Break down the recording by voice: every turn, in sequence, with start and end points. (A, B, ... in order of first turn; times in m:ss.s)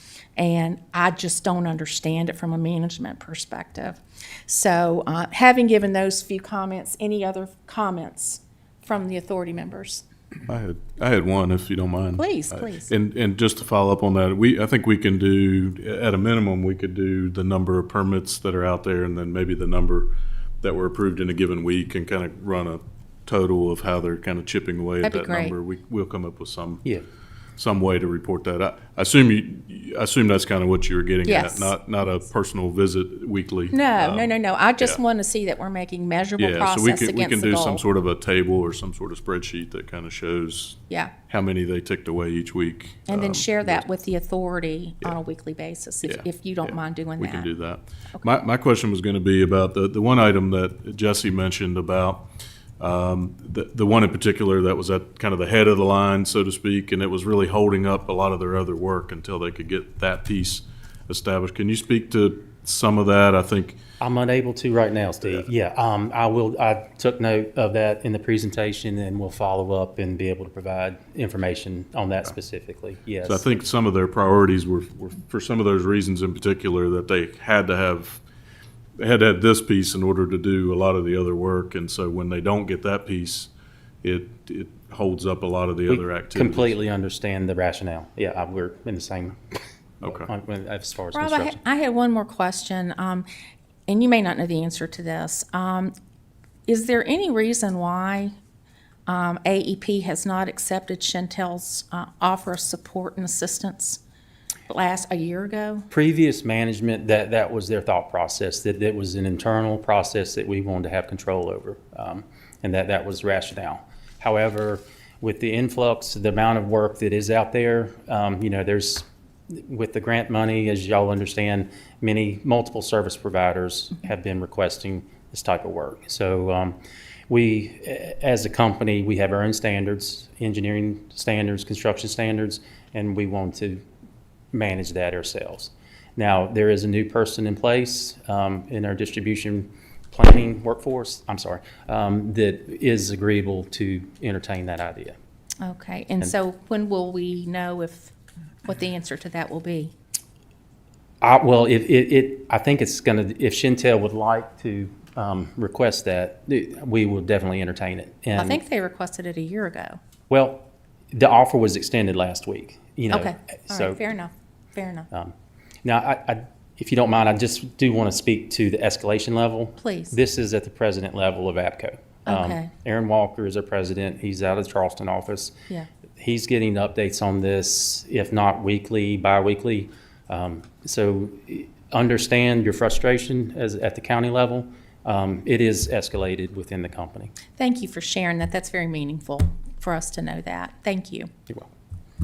0:00.4-0:10.0 A
0:10.5-0:26.8 B
0:12.2-0:12.9 A
0:25.0-0:25.5 A
0:27.6-0:35.0 B
0:31.2-0:31.7 A
0:33.7-0:37.8 A
0:36.4-0:43.8 B
0:43.1-0:47.5 A
0:47.2-0:52.3 B
0:52.8-1:03.8 B
1:04.0-1:13.4 C
1:13.2-1:18.2 B
1:19.0-1:23.5 B
1:24.0-1:26.8 B
1:25.9-1:31.6 C
1:30.0-1:30.3 B
1:31.2-1:33.3 A
1:33.9-1:35.9 A
1:36.7-1:38.3 A
1:39.1-1:44.0 A
1:44.7-1:45.9 A
1:45.9-2:06.8 C
2:07.3-2:13.8 C
2:14.5-2:25.2 C
2:25.6-2:28.1 A
2:28.6-2:29.9 A
2:31.2-2:38.6 C
2:38.4-2:40.0 A
2:40.3-2:44.0 C
2:43.1-2:45.1 A
2:45.8-2:55.5 C
2:49.8-2:50.2 A
2:52.3-2:52.7 A
2:56.2-3:07.3 C
3:07.6-3:11.3 A